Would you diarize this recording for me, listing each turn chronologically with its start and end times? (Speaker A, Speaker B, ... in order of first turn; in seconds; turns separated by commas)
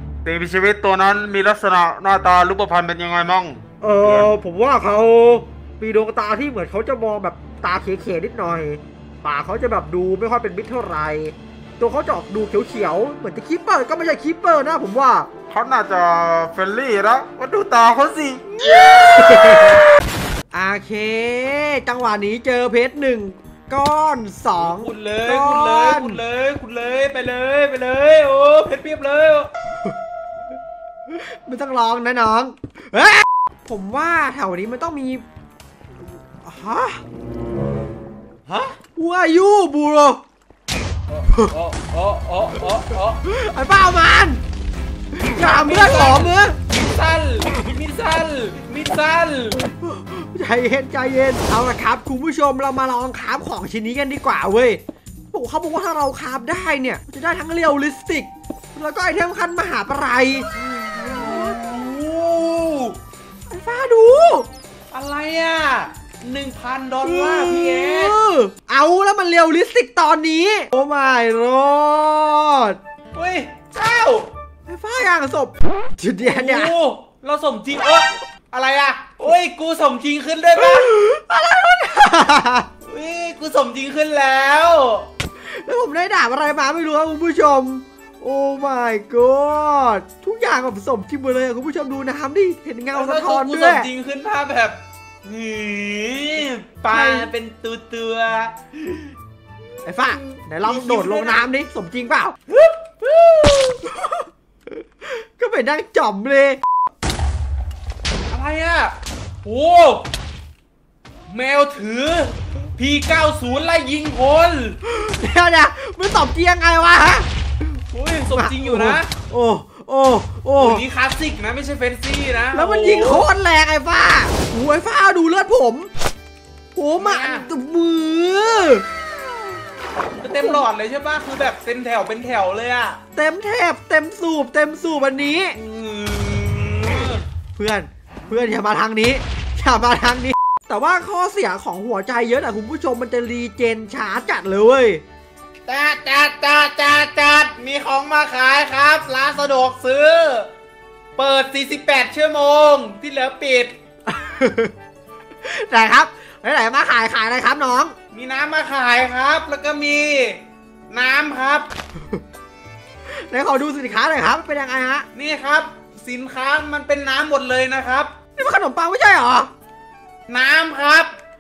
Speaker A: 0.2-4.3, Speaker B: 3.8-15.3, Speaker A: 15.5-19.7, Speaker C: 18.6-19.8, Speaker B: 19.2-19.8, Speaker B: 20.5-26.2, Speaker C: 24.6-29.5, Speaker B: 31.1-35.2, Speaker B: 36.4-37.0, Speaker C: 38.5-38.8, Speaker B: 39.0-40.2, Speaker C: 41.1-43.2, Speaker B: 43.2-44.4, Speaker B: 45.1-46.6, Speaker C: 45.3-49.6, Speaker B: 49.7-54.8, Speaker B: 55.3-60.5, Speaker C: 61.0-63.0, Speaker B: 61.0-61.6, Speaker B: 63.5-64.5, Speaker C: 64.9-68.2, Speaker B: 67.0-72.8, Speaker C: 73.1-74.3, Speaker B: 74.7-76.7, Speaker C: 76.2-80.9, Speaker B: 80.6-82.7, Speaker C: 82.8-85.1, Speaker B: 85.4-93.9, Speaker C: 92.9-99.2, Speaker B: 96.9-97.3, Speaker B: 99.8-102.4, Speaker C: 100.0-101.5, Speaker C: 102.5-103.8, Speaker B: 103.9-104.2, Speaker B: 105.0-106.6, Speaker C: 108.3-110.1, Speaker C: 111.3-114.8, Speaker B: 114.8-117.3, Speaker C: 117.9-119.1, Speaker B: 118.3-120.8, Speaker C: 120.6-123.3, Speaker B: 122.5-125.9, Speaker B: 126.8-128.9, Speaker C: 127.0-127.5, Speaker C: 130.2-133.0, Speaker B: 133.2-135.6, Speaker C: 135.6-137.2, Speaker B: 137.6-145.0, Speaker C: 145.7-150.5, Speaker C: 151.2-153.7, Speaker B: 154.1-154.7, Speaker B: 155.4-157.9, Speaker C: 158.1-161.7, Speaker B: 163.1-165.1, Speaker C: 165.1-168.1, Speaker B: 168.4-169.5, Speaker C: 170.3-171.1